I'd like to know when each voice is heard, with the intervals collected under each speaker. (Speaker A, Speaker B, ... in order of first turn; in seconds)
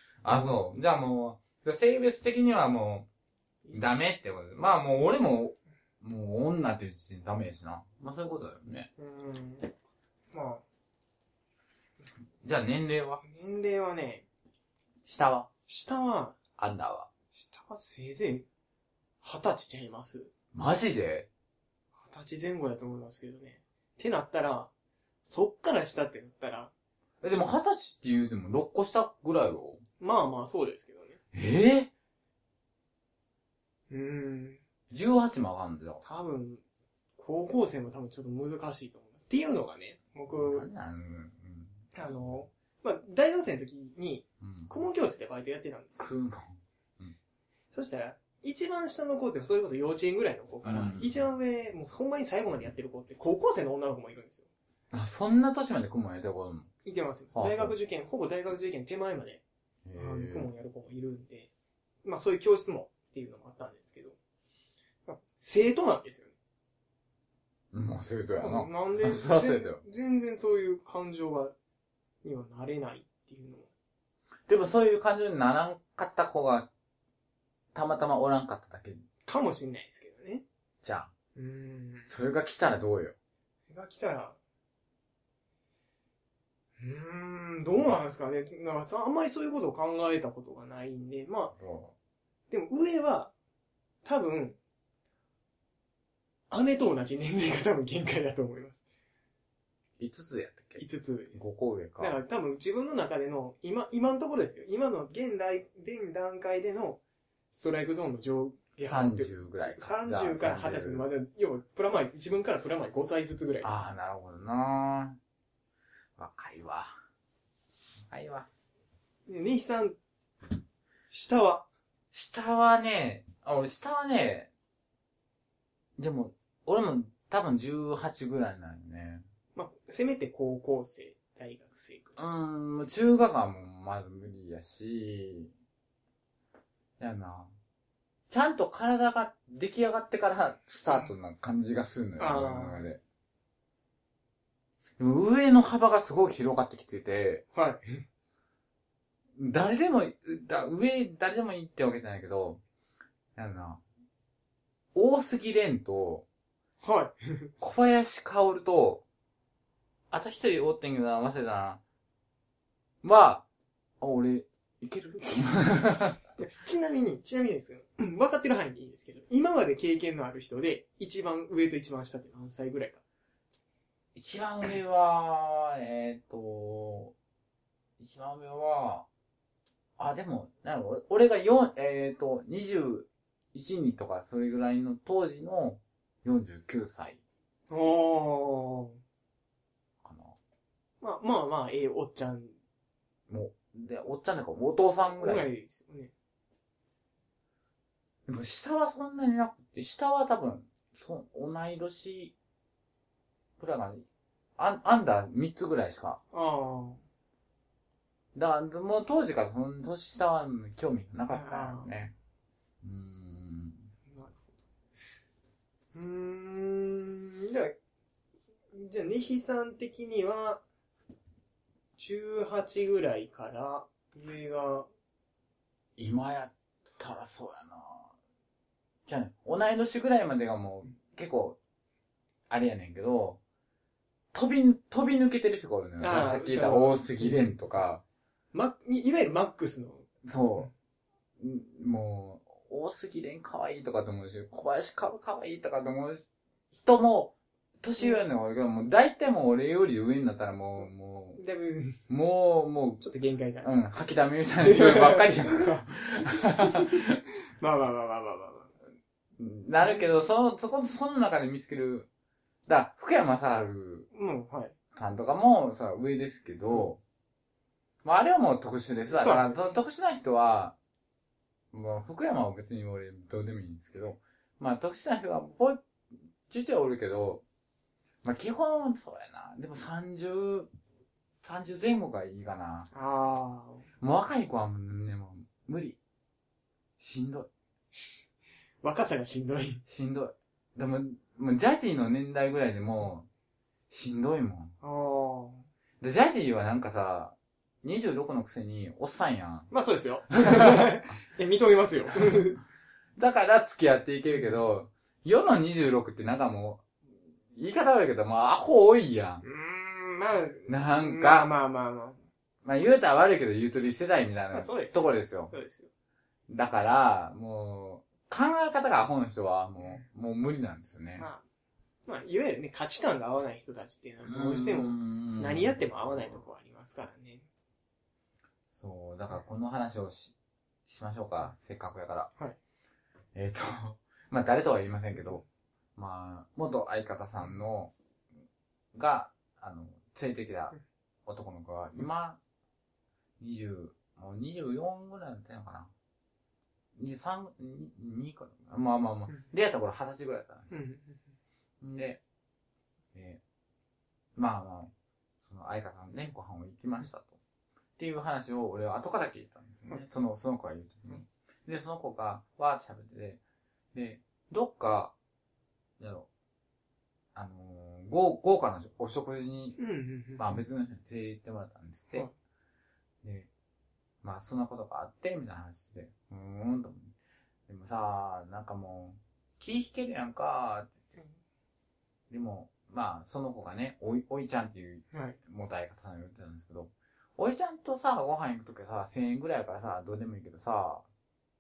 Speaker A: 0.2-3.1, 3.7-8.9, 12.4-13.2, 15.0-15.5, 16.6-17.1, 20.5-21.3, 27.2-29.8, 31.3-31.9, 34.9-36.0, 40.3-41.9, 44.4-44.7, 46.0-47.1, 50.6-51.3, 54.9-56.7, 57.3-57.8, 59.9-60.5, 67.7-69.8, 74.5-76.7, 77.7-79.0, 80.8-81.1, 82.1-83.2, 91.6-91.9, 100.0-100.8, 101.3-102.2, 108.8-111.0, 113.6-115.2, 116.2-116.9, 118.1-118.5, 122.1-124.5, 126.0-129.2, 132.2-135.5, 137.0-137.5, 138.3-143.0, 145.0-147.4, 149.4-152.6, 153.4-153.8, 154.9-156.3, 157.6-159.0, 160.1-161.8, 163.0-163.5, 164.0-166.2, 174.2-177.1, 178.0-179.1, 180.0-187.2, 190.0-190.4, 193.3-195.5, 198.3-202.3, 203.6-204.1, 204.6-206.2, 208.3-212.1, 212.8-213.9, 226.0-228.1, 229.1-231.6, 232.5-233.4, 234.3-238.0, 240.2-240.7, 241.4-251.4, 252.1-253.0, 253.6-257.2, 259.4-262.1, 262.7-264.1, 264.9-267.0, 268.0-270.8, 271.7-275.8, 276.5-277.4, 278.2-280.7, 281.4-282.9, 284.0-286.0, 287.0-287.5, 289.9-293.3, 293.9-294.7, 296.0-299.7, 300.4-300.9, 303.2-306.9, 307.5-309.4, 310.7-311.5, 312.6-315.5, 316.5-321.3, 324.2-326.4, 328.7-330.4, 330.9-332.3, 333.4-335.4, 336.0-337.9, 338.9-342.4, 343.4-345.9, 347.0-350.7, 351.8-352.2, 353.1-353.4, 354.4-354.9, 355.4-357.4, 358.0-363.4, 363.9-365.1, 366.0-366.3, 367.4-369.8, 370.4-372.3, 373.2-373.5, 374.2-377.1, 377.7-380.9, 382.3-391.1
Speaker B: 0.3-0.6, 9.0-9.7, 10.3-10.7, 13.2-14.3, 15.7-16.4, 17.3-18.5, 19.2-20.3, 22.0-24.7, 25.2-26.7, 30.0-31.2, 33.9-34.6, 36.0-36.6, 37.2-40.7, 42.0-46.1, 47.7-54.5, 56.8-59.4, 60.0-61.5, 62.0-64.2, 65.1-66.3, 68.4-71.5, 72.2-73.7, 79.3-80.4, 81.4-82.1, 83.7-84.4, 86.8-91.5, 92.5-93.3, 94.0-94.6, 96.5-98.8, 100.8-101.4, 102.0-107.0, 107.5-113.7, 119.3-120.0, 121.1-121.7, 129.6-132.2, 142.2-142.9, 147.5-148.0, 156.8-157.5, 166.4-173.0, 187.7-189.0, 191.0-192.6, 195.1-196.1, 206.3-207.0, 211.3-211.9, 214.1-214.4, 215.9-217.8, 218.7-220.6, 222.0-224.9, 236.0-237.5, 238.5-240.1, 251.4-252.0, 253.0-253.7, 254.6-257.1, 257.6-258.7, 264.1-264.8, 269.1-269.8, 282.9-283.9, 288.8-289.8, 294.8-295.7, 299.7-302.6, 309.4-312.2, 314.5-315.9, 321.2-321.4, 322.1-327.5, 350.7-351.2, 369.8-370.6, 385.1-385.4